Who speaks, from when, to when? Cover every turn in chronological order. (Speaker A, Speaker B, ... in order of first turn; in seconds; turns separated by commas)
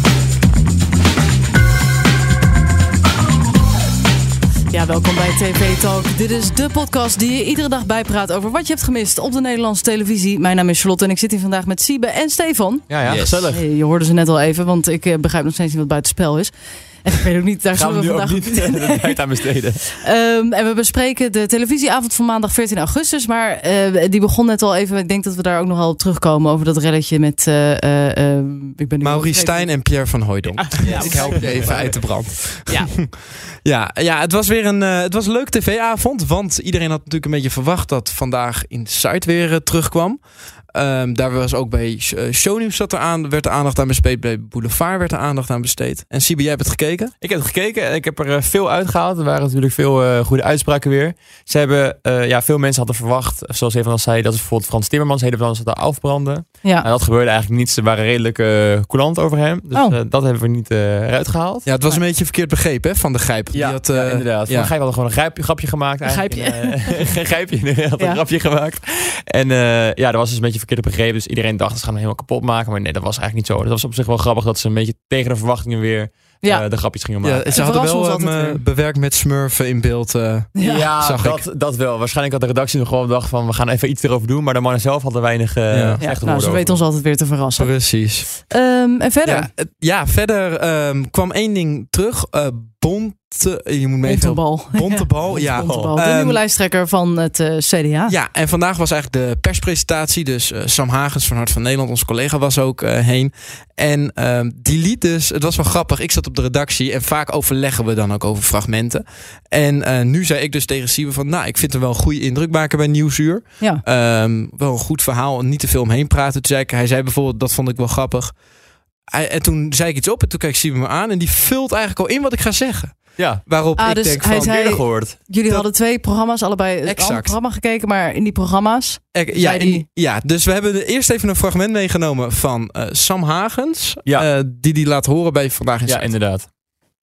Speaker A: 4.7-19.2, Speaker B: 12.9-13.6, Speaker B: 17.7-19.9, Speaker A: 19.9-29.9, Speaker C: 29.0-40.2, Speaker A: 30.5-32.0, Speaker C: 40.7-47.1, Speaker B: 47.2-61.9, Speaker C: 61.6-64.7, Speaker B: 63.5-77.5, Speaker A: 66.0-67.0, Speaker C: 77.2-81.4, Speaker A: 77.5-78.6, Speaker A: 80.6-80.9, Speaker B: 80.6-86.8, Speaker C: 85.7-86.0, Speaker A: 86.0-87.7, Speaker C: 87.6-88.3, Speaker A: 88.5-89.5, Speaker C: 89.2-96.4, Speaker A: 94.0-98.1, Speaker B: 95.3-95.9, Speaker C: 98.1-118.3, Speaker C: 119.1-124.7, Speaker B: 123.2-123.4, Speaker A: 123.8-129.8, Speaker B: 124.3-125.2, Speaker C: 126.8-127.4, Speaker C: 129.1-136.1, Speaker B: 135.8-136.4